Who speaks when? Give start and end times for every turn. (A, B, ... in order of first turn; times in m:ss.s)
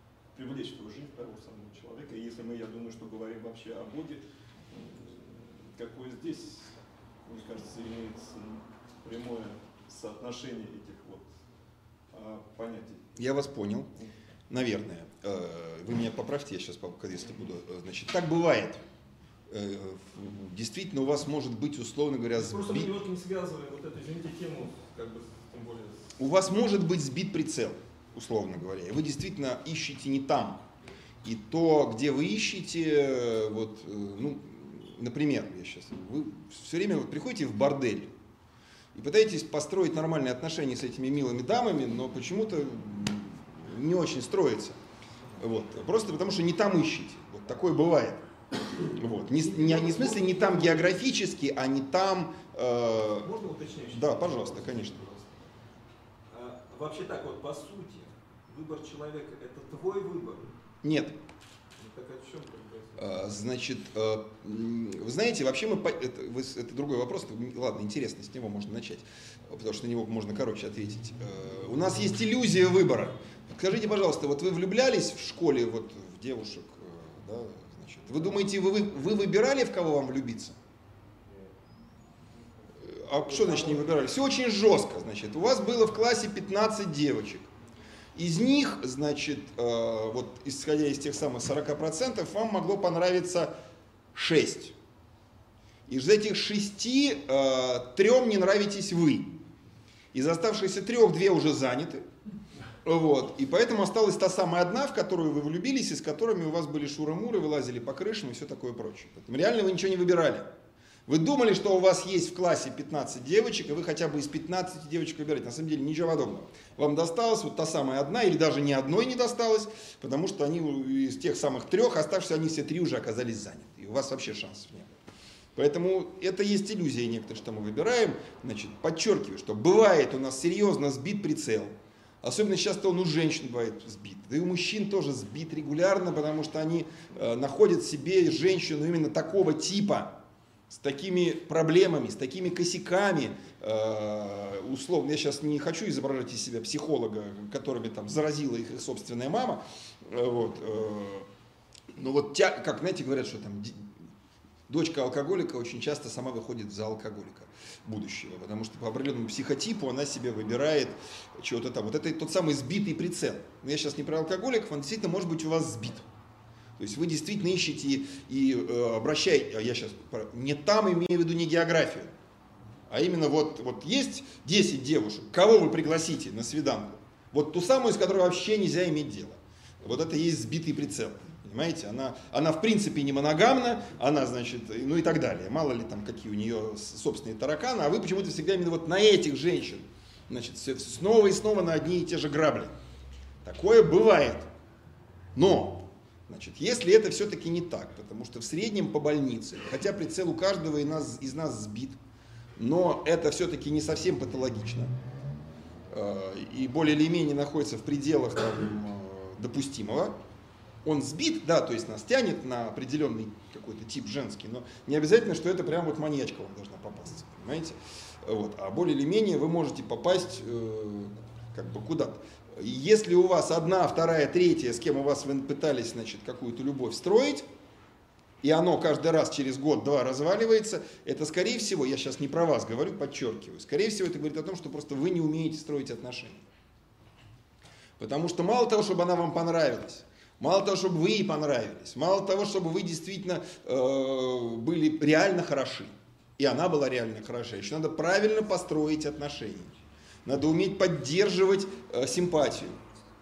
0:00.3-0:11.3 A
0:12.1-0:13.1 A
0:13.2-0:13.9 B
0:14.5-0:18.8 B
0:19.5-0:22.9 B
0:22.3-0:26.1 A
0:26.2-0:30.6 B
0:31.2-0:38.1 B
0:38.9-0:44.8 B
0:45.4-0:48.2 B
0:48.9-0:53.3 B
0:49.2-0:51.0 A
0:53.2-0:55.5 A
0:53.9-0:55.0 B
0:56.3-1:00.5 A
1:00.8-1:01.2 B
1:01.8-1:03.1 A
1:03.0-1:20.6 B
1:22.8-1:27.5 B
1:23.5-1:23.8 A
1:28.2-1:33.5 B
1:34.1-1:34.7 B
1:35.9-1:39.4 B
1:40.1-1:42.0 B
1:42.8-1:50.5 B
1:51.1-2:05.0 B
2:05.5-2:20.2 B
2:20.7-2:31.3 B
2:31.9-2:34.0 B
2:34.7-2:46.0 B
2:46.8-2:52.1 B
2:52.9-3:12.7 B
3:13.4-3:14.5 B
3:15.3-3:22.0 B
3:22.6-3:24.9 B
3:25.9-3:30.2 B
3:30.8-3:47.4 B
3:48.4-3:56.4 B
3:58.0-4:09.7 B
4:10.2-4:12.8 B